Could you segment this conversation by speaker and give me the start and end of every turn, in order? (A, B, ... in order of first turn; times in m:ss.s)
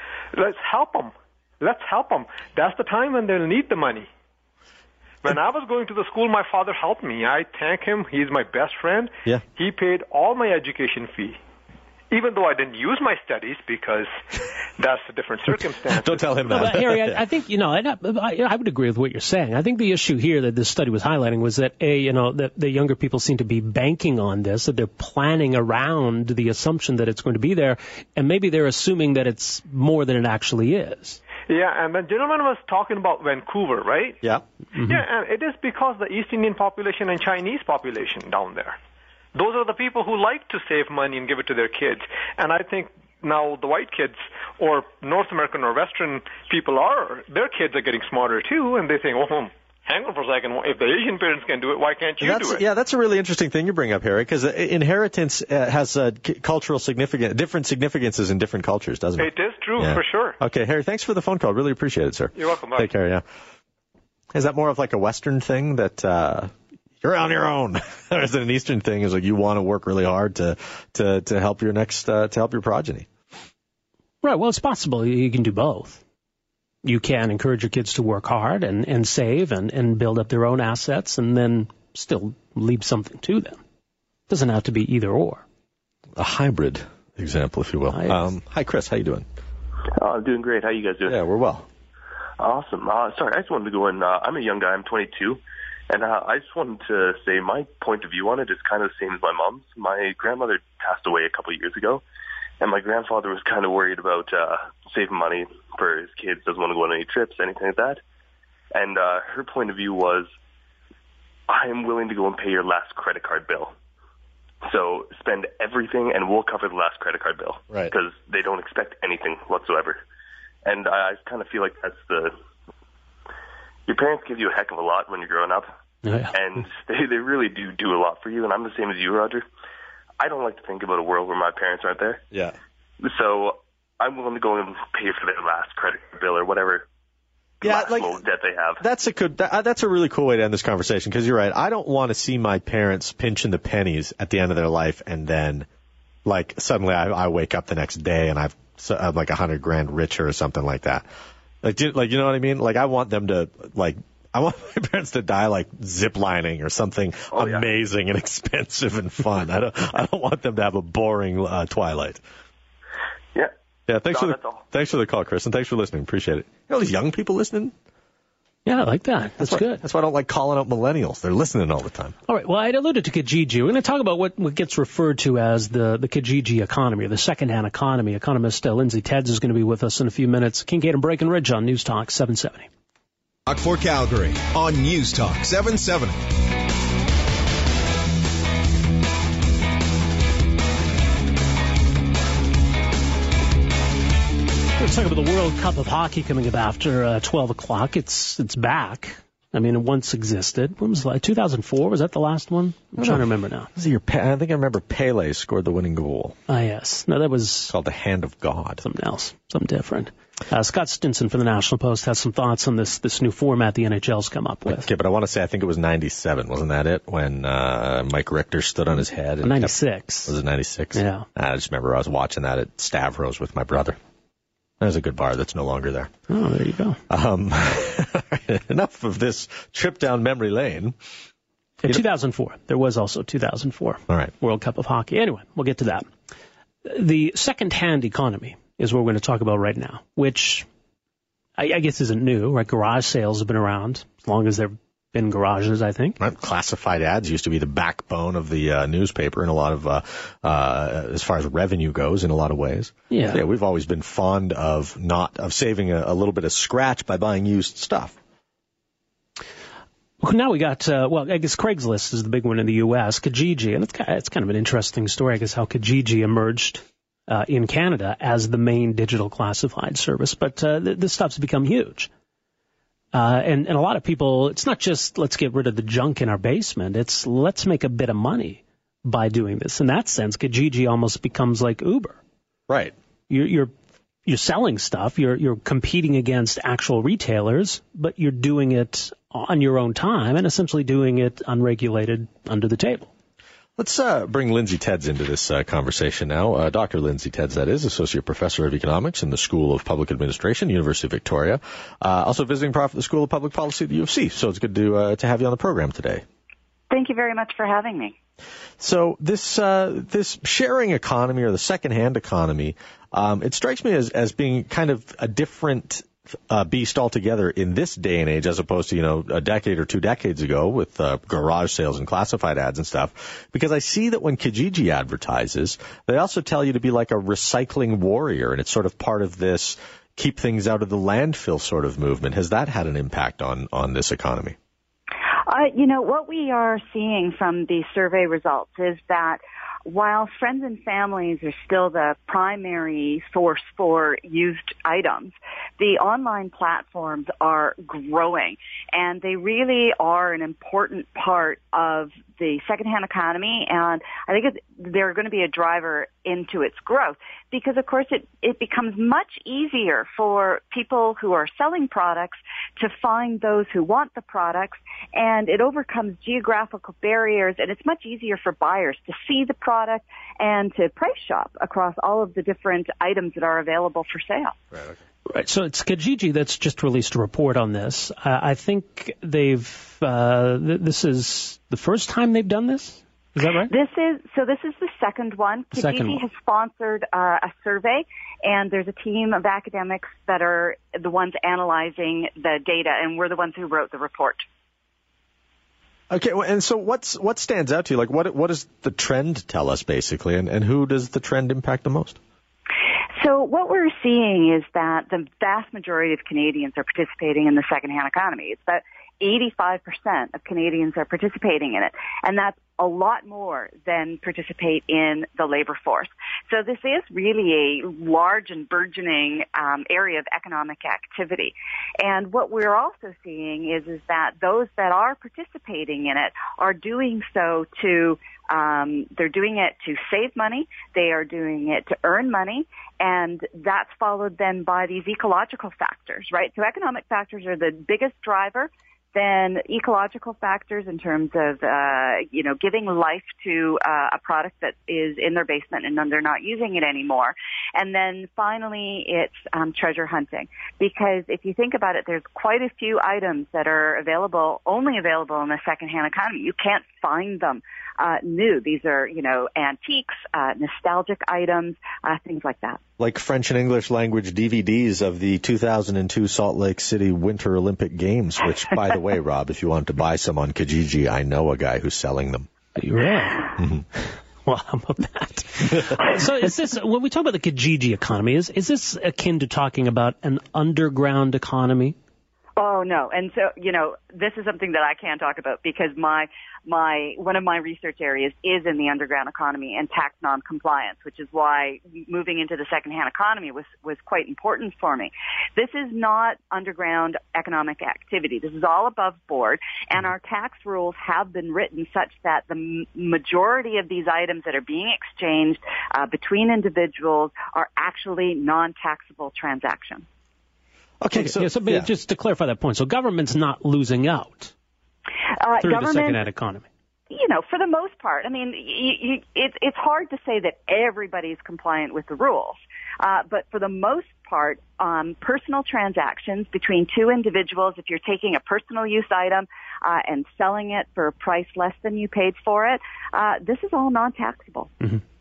0:00.3-0:04.1 A
0:05.2-0:11.4 A
0:12.1-0:14.2 A
0:14.8-0:16.4 A
0:15.9-0:17.2 B
0:16.5-0:31.2 C
0:31.5-0:34.2 A
0:34.8-0:38.8 A
0:39.3-0:52.6 A
0:52.2-1:03.2 B
0:59.2-1:00.4 A
1:02.3-1:02.9 A
1:04.3-1:13.1 B
1:14.2-1:16.0 C
1:16.8-1:23.6 C
1:24.3-1:25.4 C
1:26.2-1:29.2 B
1:27.9-1:28.2 C
1:30.0-1:31.2 D
1:31.0-1:31.7 B
1:32.4-1:42.0 D
1:42.6-1:48.0 D
1:48.7-1:50.3 D
1:51.5-1:53.7 D
1:54.6-2:00.0 D
2:00.6-2:02.3 D
2:03.9-2:05.7 D
2:06.0-2:06.3 C
2:06.3-2:09.4 D
2:10.2-2:12.2 D
2:13.0-2:16.8 D
2:17.6-2:18.8 D
2:17.6-2:18.2 B
2:18.8-2:25.7 B
2:26.2-2:31.1 B
2:31.6-2:42.2 B
2:37.3-2:37.6 D
2:43.9-2:47.7 B
2:44.1-2:44.6 D
2:48.6-2:49.8 C
2:49.4-2:52.2 B
2:52.3-3:02.7 C
3:03.4-3:06.3 E
3:14.8-3:23.7 C
3:23.0-3:23.2 B
3:23.8-3:26.4 B
3:26.5-3:27.7 C
3:27.7-3:28.8 B
3:28.8-3:34.9 C
3:34.7-3:44.0 B
3:39.4-3:40.3 C
3:40.9-3:41.2 C
3:44.8-3:46.1 B
3:46.3-3:47.0 C
3:47.1-3:51.0 B
3:51.8-3:56.1 C
3:56.8-4:00.7 C
4:01.6-4:06.2 C
4:06.2-4:18.2 B
4:13.1-4:13.4 C
4:20.2-4:32.1 C
4:33.1-4:42.2 C
4:42.7-4:42.9 B
4:43.3-4:43.7 C
4:44.2-4:53.1 C
4:53.8-5:06.2 B
5:06.9-5:08.1 F
5:08.8-5:34.6 B
5:35.4-6:14.6 F
6:15.3-6:23.7 C
6:23.7-6:34.4 F
6:25.8-6:26.2 C
6:36.1-6:42.2 B
6:43.2-7:42.8 F
7:43.0-7:52.5 B
7:52.8-7:53.6 C
7:53.6-7:53.8 B
7:54.4-8:02.0 C
8:02.6-8:30.0 F
8:31.0-8:31.9 B
8:31.1-8:34.5 C
8:35.4-8:36.2 F
8:35.6-8:36.6 C
8:37.1-8:54.7 F